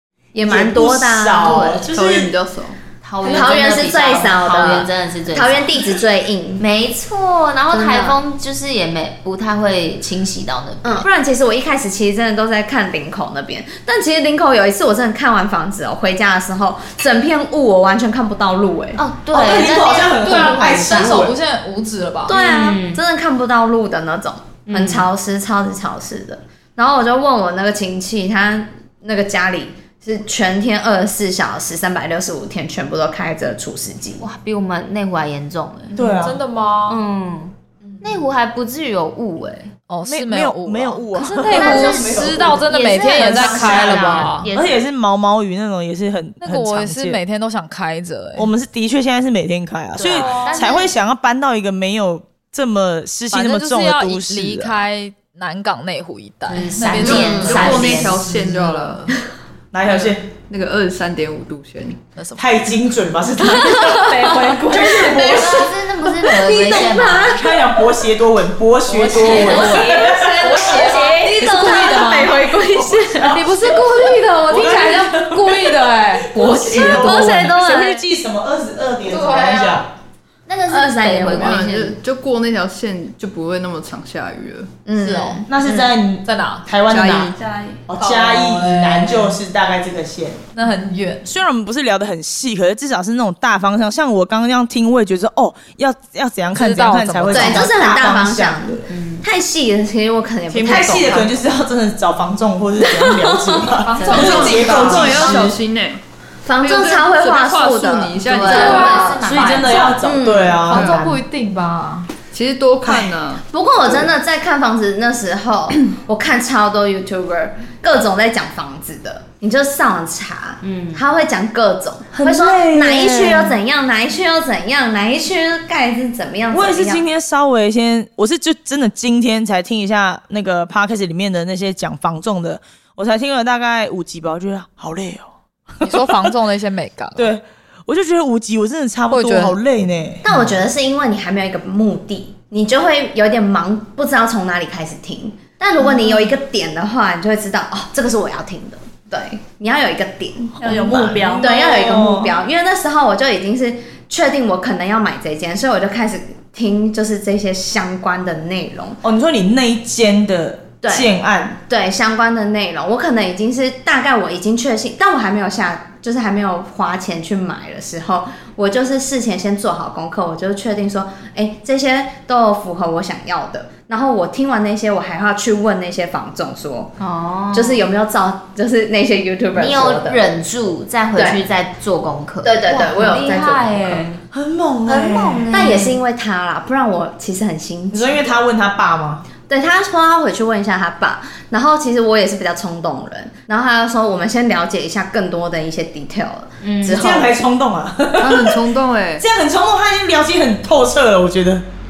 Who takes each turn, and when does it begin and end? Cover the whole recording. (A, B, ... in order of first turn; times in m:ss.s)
0:00.3-0:01.8 A
0:00.4-0:02.3 B
0:01.4-0:01.9 C
0:01.9-0:03.5 D
0:03.0-0:05.8 C
0:03.2-0:06.6 A
0:06.6-0:11.1 C
0:07.7-0:08.2 A
0:10.8-0:19.0 A
0:18.9-0:21.1 C
0:19.3-0:21.3 B
0:20.2-0:22.4 E
0:22.3-0:34.2 A
0:22.3-0:23.0 C
0:24.7-0:25.0 C
0:34.2-0:36.0 C
0:36.0-0:36.4 B
0:36.0-0:37.0 E
0:36.9-0:39.7 C
0:37.9-0:38.2 E
0:39.9-0:44.5 E
0:40.0-0:47.2 B
0:41.4-0:44.8 C
0:46.4-0:48.5 E
0:48.4-0:54.7 B
0:50.0-0:50.9 C
0:50.2-0:50.6 E
0:53.3-0:59.2 E
0:56.5-0:58.2 C
0:56.9-0:59.1 D
0:57.0-0:57.8 A
0:59.7-1:00.3 B
0:59.9-1:02.0 D
1:02.1-1:02.7 E
1:02.4-1:05.7 B
1:03.5-1:05.7 A
1:05.2-1:07.4 C
1:06.2-1:08.0 A
1:06.6-1:10.9 B
1:08.9-1:12.4 E
1:09.2-1:11.4 C
1:09.3-1:13.5 A
1:11.8-1:19.9 B
1:13.2-1:17.2 E
1:16.4-1:18.0 A
1:19.1-1:19.8 E
1:20.4-1:22.0 C
1:20.7-1:21.6 A
1:21.3-1:24.7 D
1:24.8-1:25.5 A
1:25.0-1:26.7 E
1:25.5-1:27.3 B
1:26.9-1:28.4 D
1:27.9-1:30.4 B
1:28.3-1:29.4 E
1:30.5-1:31.2 E
1:31.2-1:38.8 B
1:36.5-1:37.8 E
1:37.3-1:41.4 A
1:38.9-1:39.2 C
1:40.5-1:41.1 D
1:40.6-1:45.6 B
1:42.8-1:45.3 A
1:43.9-1:45.4 E
1:44.0-1:44.7 C
1:44.0-1:46.0 D
1:46.4-1:50.7 A
1:46.6-1:48.9 D
1:48.2-1:50.1 C
1:48.7-1:49.1 E
1:49.1-1:51.2 B
1:50.6-1:52.1 E
1:50.7-1:51.0 D
1:52.3-1:53.4 D
1:52.8-2:07.0 A
2:00.6-2:01.0 C
2:02.1-2:03.6 B
2:06.5-2:15.3 B
2:15.8-2:17.3 E
2:15.8-2:16.3 B
2:17.2-2:20.2 B
2:19.1-2:19.6 E
2:20.2-2:39.0 A
2:30.6-2:32.4 B
2:39.0-2:41.6 B
2:40.8-2:41.1 A
2:41.7-2:56.9 A
2:57.0-2:57.8 C
2:57.5-3:00.2 A
2:59.5-3:04.2 C
3:01.1-3:01.4 A
3:02.4-3:04.0 A
3:04.3-3:05.6 B
3:04.8-3:06.0 C
3:05.5-3:08.4 A
3:07.9-3:09.3 B
3:09.5-3:17.3 A
3:16.6-3:17.0 C
3:16.8-3:18.6 B
3:18.2-3:19.2 D
3:19.2-3:21.6 B